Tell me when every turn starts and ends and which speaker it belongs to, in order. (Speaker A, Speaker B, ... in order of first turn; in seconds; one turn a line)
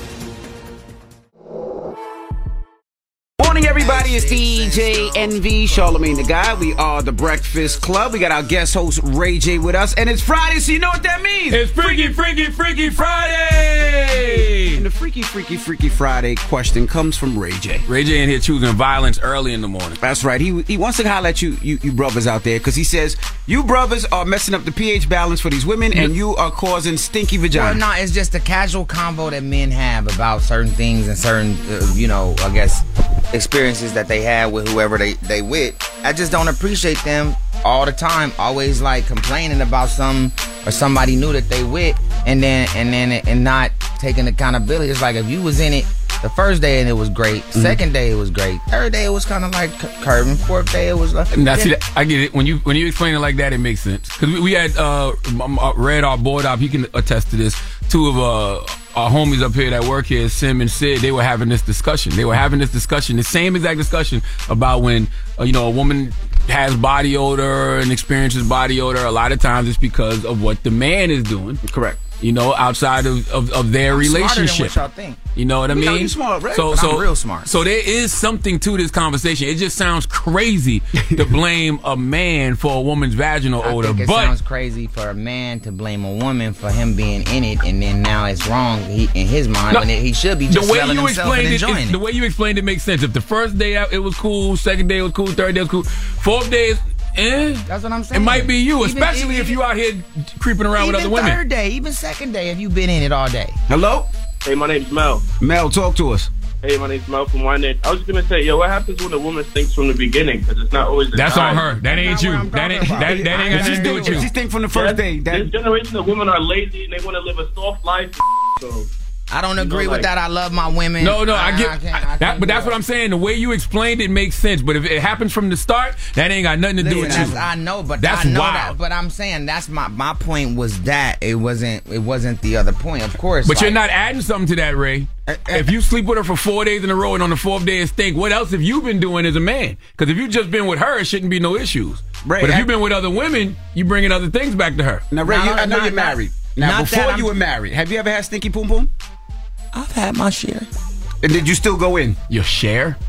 Speaker A: 3.4-12.1
Speaker B: 3.6-6.0
Speaker C: 11.5-14.9
Speaker A: 14.7-17.9
Speaker C: 17.9-20.0
Speaker A: 20.0-27.8
Speaker B: 27.5-51.7
Speaker C: 51.3-71.6
Speaker A: 71.6-72.0
Speaker C: 72.2-74.8
Speaker B: 73.9-75.2
Speaker C: 75.4-84.3
Speaker A: 75.7-76.7
Speaker B: 76.7-77.5
Speaker B: 83.6-92.0
Speaker C: 90.5-101.4
Speaker B: 97.7-99.6
Speaker B: 100.8-103.6
Speaker A: 103.7-104.1
Speaker D: 104.4-105.3
Speaker A: 105.4-106.3
Speaker D: 106.6-111.8
Speaker C: 111.1-114.3
Speaker B: 111.8-114.3
Speaker A: 113.0-115.5
Speaker D: 114.7-118.9
Speaker B: 119.3-122.8
Speaker D: 119.5-120.1
Speaker C: 121.0-127.5
Speaker A: 126.8-127.4
Speaker B: 126.8-133.8
Speaker C: 128.0-128.8
Speaker C: 133.4-145.1
Speaker A: 135.3-135.7
Speaker A: 142.2-142.7
Speaker A: 145.1-148.9
Speaker B: 145.2-147.4
Speaker B: 149.7-150.7
Speaker A: 151.2-152.2
Speaker C: 152.3-153.0